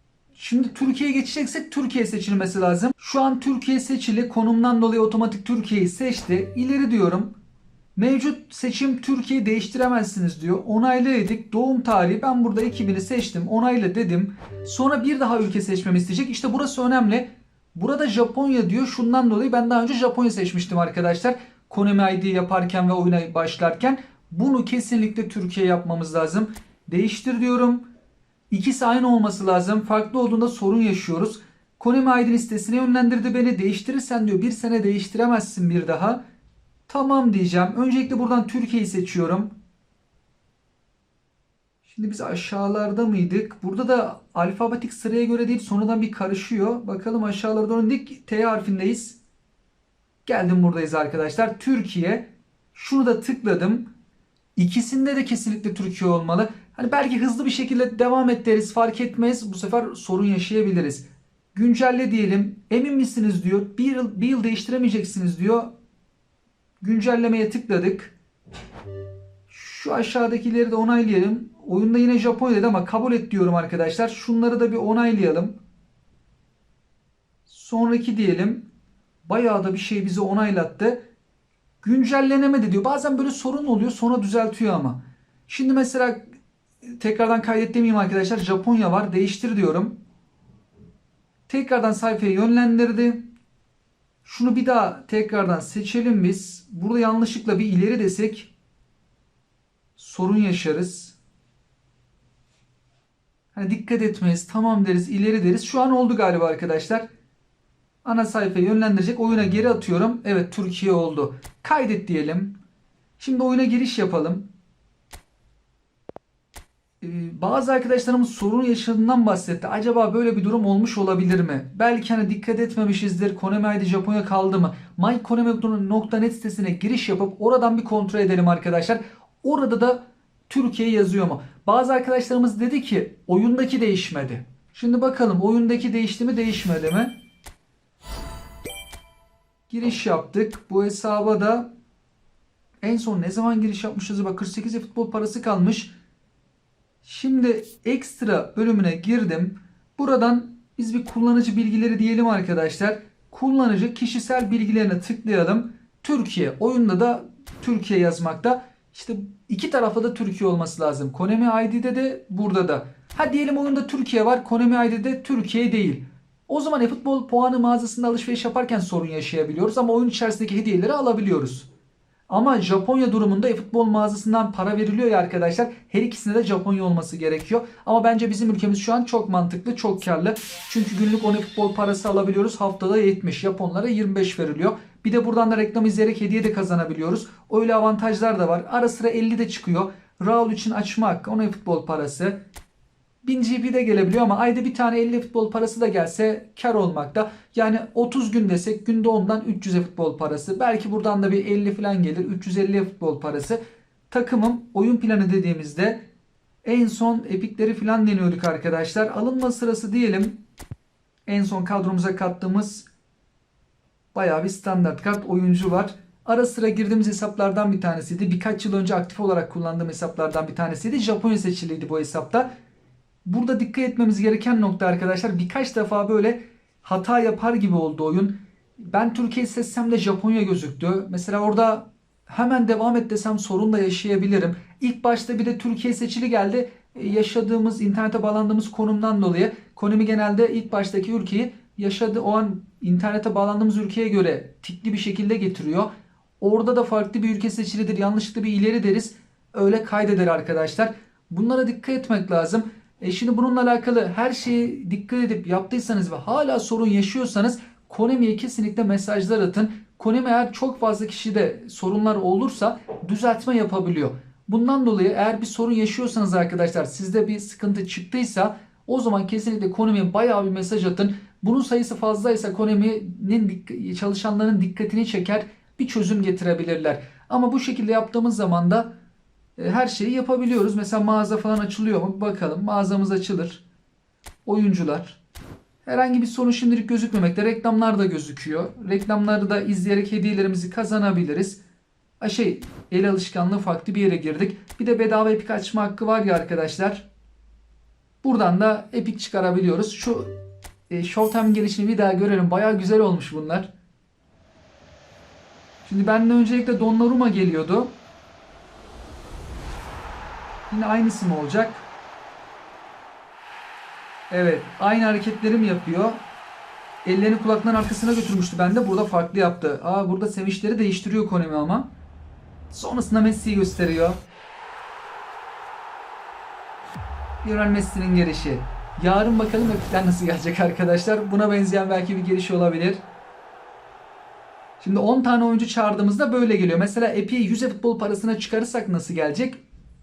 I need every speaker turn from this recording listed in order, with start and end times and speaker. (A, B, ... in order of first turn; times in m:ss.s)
0:00.4-0:07.3 A
0:08.0-0:27.8 A
0:28.5-0:36.2 A
0:36.9-0:39.5 A
0:41.8-0:49.2 A
0:50.3-0:53.9 A
0:54.6-1:05.7 A
1:06.8-1:08.2 A
1:09.5-1:15.6 A
1:17.5-1:18.7 A
1:19.2-1:21.0 A
1:21.8-1:26.2 A
1:26.9-1:30.0 A
1:31.5-1:33.2 A
1:34.2-1:38.5 A
1:40.0-1:41.2 A
1:43.6-1:47.1 A
1:48.0-1:52.6 A
1:53.2-1:54.5 A
1:57.0-2:17.1 A
2:19.7-2:21.7 A
2:22.8-2:25.9 A
2:27.0-2:51.7 A
2:52.3-3:12.4 A
3:13.2-3:23.6 A
3:24.1-3:26.0 A
3:26.6-3:30.4 A
3:31.3-3:32.9 A
3:34.1-3:42.5 A
3:43.2-4:05.9 A
4:06.4-4:39.0 A
4:39.6-4:43.6 A
4:44.4-4:45.2 A
4:45.8-4:51.6 A
4:52.2-4:57.1 A
4:58.2-5:00.4 A
5:00.9-5:03.7 A
5:05.8-5:08.0 A
5:10.7-5:11.9 A
5:14.3-5:16.2 A
5:17.0-5:21.9 A
5:22.7-5:24.2 A
5:27.4-5:33.0 A
5:34.8-5:39.6 A